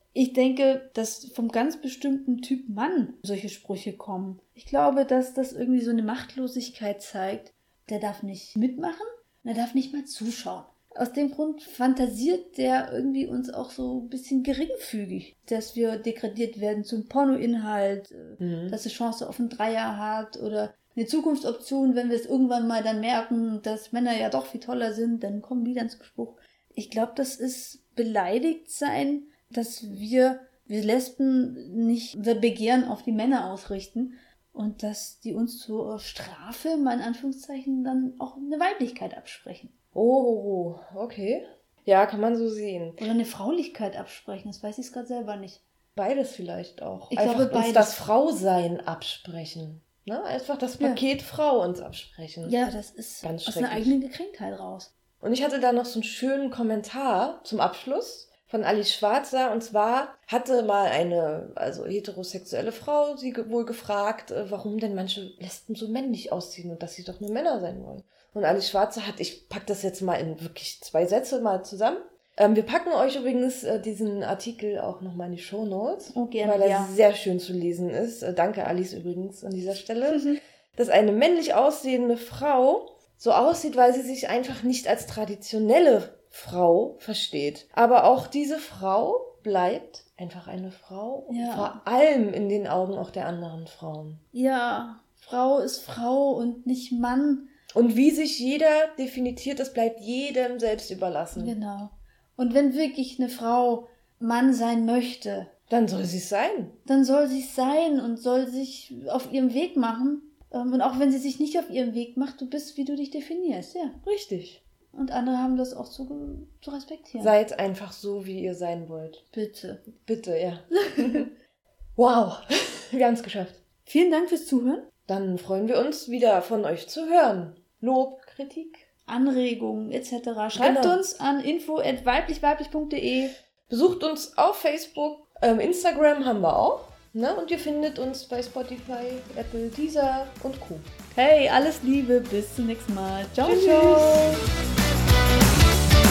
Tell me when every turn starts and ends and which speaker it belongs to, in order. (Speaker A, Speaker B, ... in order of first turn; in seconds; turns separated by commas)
Speaker A: 0.1-39.7, Speaker B: 18.4-18.8, Speaker B: 40.0-43.1, Speaker A: 43.0-45.6, Speaker B: 46.0-52.6, Speaker A: 47.1-48.0, Speaker A: 50.8-51.0, Speaker A: 52.4-54.9, Speaker B: 53.2-54.0, Speaker B: 55.2-94.2, Speaker A: 76.1-77.0, Speaker A: 91.3-91.8, Speaker A: 94.3-97.5, Speaker B: 97.7-101.6, Speaker A: 101.3-105.5, Speaker B: 105.7-106.8, Speaker A: 106.9-114.0, Speaker B: 114.0-114.6, Speaker A: 114.9-117.4, Speaker B: 117.2-119.2, Speaker A: 119.3-119.9, Speaker B: 120.0-121.3, Speaker A: 121.0-121.2, Speaker B: 122.0-123.6, Speaker A: 123.9-124.9, Speaker B: 125.1-128.8, Speaker A: 129.1-133.3, Speaker B: 130.5-131.0, Speaker B: 133.7-140.9, Speaker A: 141.1-144.4, Speaker B: 143.4-144.4